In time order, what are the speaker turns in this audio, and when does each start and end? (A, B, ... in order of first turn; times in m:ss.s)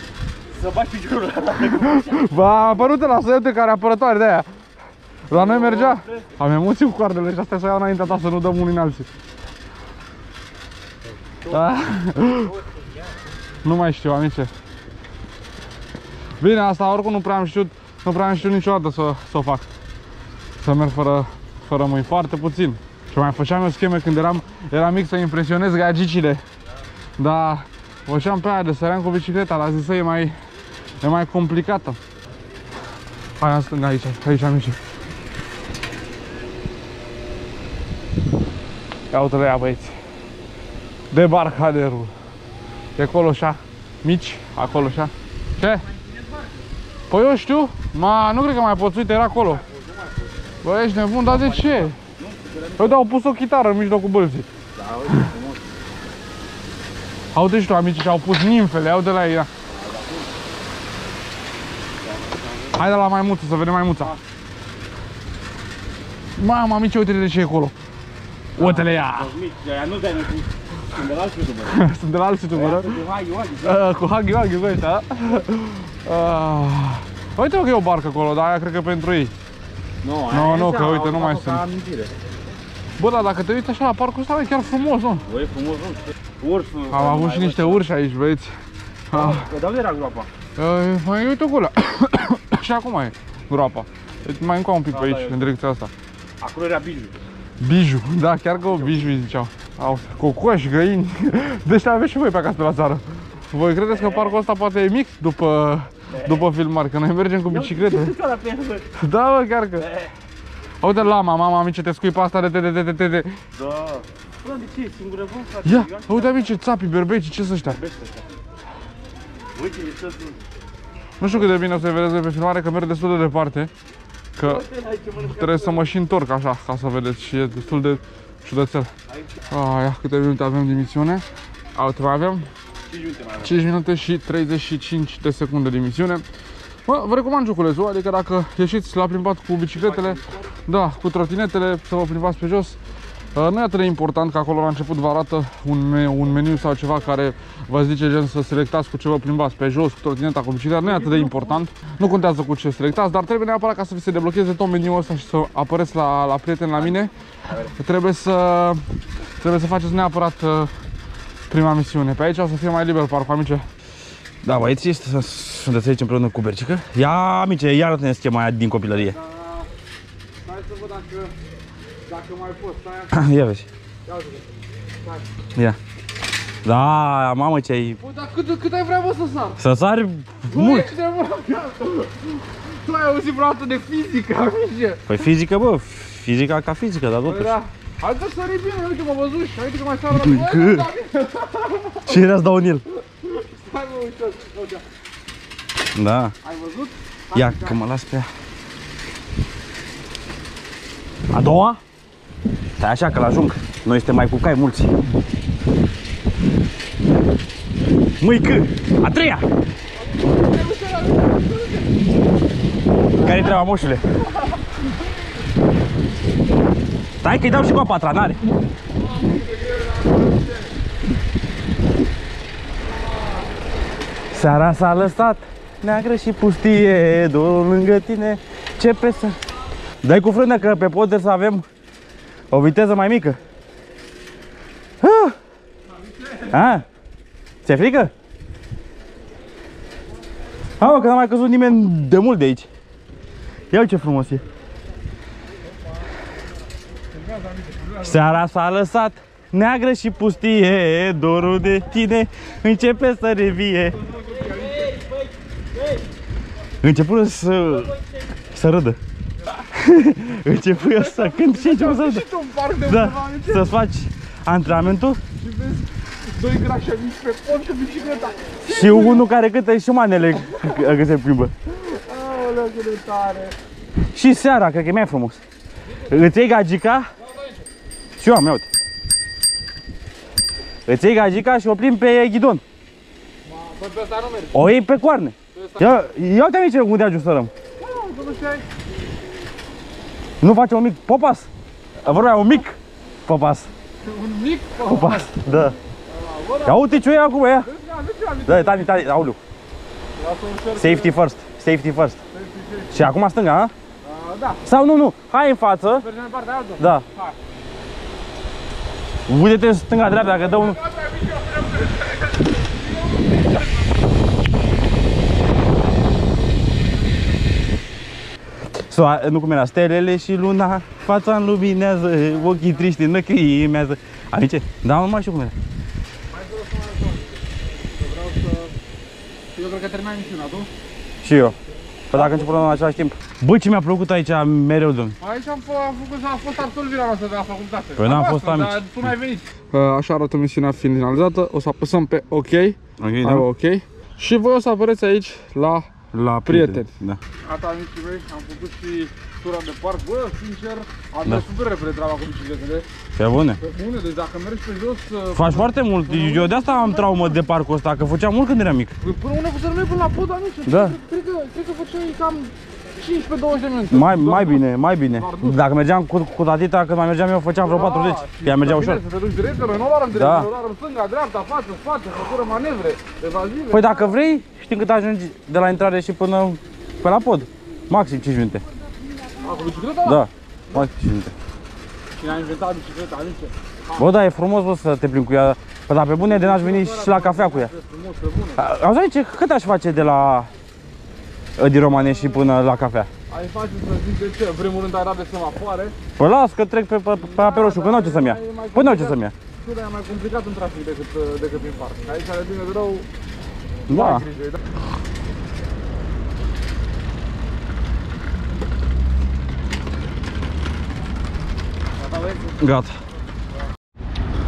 0:00.5-0:02.8 A
0:01.8-0:04.5 B
0:05.3-0:09.1 B
0:05.3-0:06.3 A
0:11.5-0:12.5 B
0:13.6-0:14.5 B
0:16.4-0:19.6 B
0:20.6-0:26.4 B
0:27.2-0:30.3 B
0:31.0-0:32.0 B
0:33.4-0:34.8 B
0:39.1-0:40.0 B
0:41.1-0:42.1 B
0:43.0-0:45.8 B
0:47.1-0:49.6 B
0:49.3-0:50.3 A
0:50.6-0:52.0 B
0:51.2-0:53.0 A
0:52.8-0:54.5 B
0:54.7-0:55.7 A
0:57.3-0:59.5 B
0:59.7-1:00.3 A
1:02.0-1:03.0 A
1:02.7-1:04.1 B
1:06.4-1:07.7 B
1:08.6-1:11.8 A
1:08.6-1:09.3 B
1:11.7-1:13.0 B
1:12.5-1:13.9 A
1:13.6-1:19.3 B
1:20.0-1:22.1 A
1:20.3-1:21.6 B
1:23.0-1:25.2 B
1:25.3-1:27.8 A
1:26.9-1:28.5 B
1:29.1-1:29.5 B
1:29.1-1:30.3 A
1:30.6-1:35.9 B
1:34.9-1:35.5 A
1:36.4-1:37.2 A
1:37.6-1:48.1 B
1:38.6-1:39.1 A
1:43.9-1:44.4 A
1:46.1-1:46.5 A
1:47.5-1:48.9 A
1:49.0-1:49.9 B
1:49.8-1:50.1 A
1:50.8-1:53.3 B
1:53.6-1:56.5 A
1:55.6-1:57.8 B
1:57.6-1:58.2 A
1:59.6-2:00.4 A
2:01.2-2:03.7 B
2:04.4-2:04.6 B
2:04.4-2:05.9 A
2:05.3-2:08.9 B
2:09.5-2:12.5 B
2:12.9-2:13.6 A
2:13.4-2:16.2 B
2:16.8-2:22.8 B
2:19.7-2:20.5 A
2:23.3-2:37.1 B
2:30.8-2:31.6 A
2:37.7-2:38.8 B
2:39.4-2:40.7 B
2:41.5-2:43.6 B
2:44.4-2:49.2 A
2:48.9-2:49.7 B
2:50.4-2:51.3 B
2:52.1-2:53.1 B
2:53.1-2:53.7 A
2:54.1-2:54.5 B
2:56.6-2:58.0 A
2:58.0-2:59.6 B
2:59.6-3:00.9 A
3:00.4-3:05.3 B
3:05.1-3:07.6 A
3:07.2-3:12.3 B
3:10.1-3:10.9 A
3:12.0-3:12.8 A
3:13.2-3:14.8 B
3:15.9-3:16.3 A
3:16.4-3:17.8 B
3:17.3-3:18.3 A
3:21.3-3:21.8 A
3:22.8-3:24.9 A
3:28.2-3:29.4 A
3:30.1-3:32.0 B
3:33.2-3:34.0 A
3:33.2-3:33.6 B
3:34.3-3:34.8 B
3:37.2-3:38.4 A
3:39.1-3:40.5 B
3:44.3-3:49.4 A
3:50.0-3:51.6 A
3:52.5-3:53.4 A
3:55.0-3:55.4 A
3:56.4-3:56.8 A
3:57.6-3:58.1 A
4:00.8-4:02.7 A
4:03.7-4:04.4 A
4:07.9-4:15.2 A
4:16.8-4:19.0 A
4:19.6-4:25.2 A
4:20.7-4:23.7 B
4:25.4-4:29.2 B
4:28.6-4:31.5 A
4:30.5-4:30.8 B
4:31.7-4:33.5 B
4:34.1-4:35.4 A
4:36.0-4:37.1 A
4:38.2-4:38.7 A
4:40.9-4:42.6 A
4:43.4-4:44.6 B
4:44.5-4:47.5 A
4:45.5-4:46.0 B
4:47.8-4:48.6 B
4:50.4-4:51.5 A
4:52.0-4:53.7 A
4:54.0-4:55.2 B
4:54.8-4:55.8 A
4:56.1-4:56.8 B
4:56.6-4:57.7 A
4:57.6-4:59.0 B
4:58.4-4:59.4 A
5:00.2-5:01.1 B
5:00.7-5:02.2 A
5:02.3-5:03.0 B
5:02.9-5:03.7 A
5:04.0-5:04.6 B
5:04.6-5:06.0 A
5:05.9-5:07.3 B
5:06.8-5:07.0 A
5:09.3-5:10.8 A
5:10.5-5:12.0 B
5:18.9-5:25.5 A
5:26.3-5:27.3 B
5:28.0-5:28.7 B
5:29.5-5:30.7 B
5:31.2-5:31.6 A
5:32.1-5:35.2 A
5:32.1-5:32.5 B
5:35.2-5:45.9 B
5:38.0-5:39.1 A
5:43.0-5:43.5 A
5:46.1-5:47.2 A
5:46.4-5:46.9 B
5:47.4-5:52.8 B
5:53.2-5:53.6 A
5:53.6-5:57.4 B
5:55.3-5:58.9 A
5:59.0-6:05.6 B
6:00.7-6:01.0 A
6:03.9-6:09.0 A
6:07.6-6:14.1 B
6:10.1-6:10.5 A
6:13.7-6:18.6 A
6:19.4-6:20.9 B
6:20.0-6:21.3 A
6:22.2-6:24.0 B
6:23.9-6:27.7 A
6:26.2-6:28.6 B
6:28.6-6:30.5 A
6:31.6-6:33.1 A
6:31.9-6:32.5 B
6:33.3-6:35.9 B
6:36.2-6:39.3 A
6:37.1-6:43.1 B
6:43.9-6:44.2 A
6:43.9-6:44.6 B
6:52.0-6:52.9 A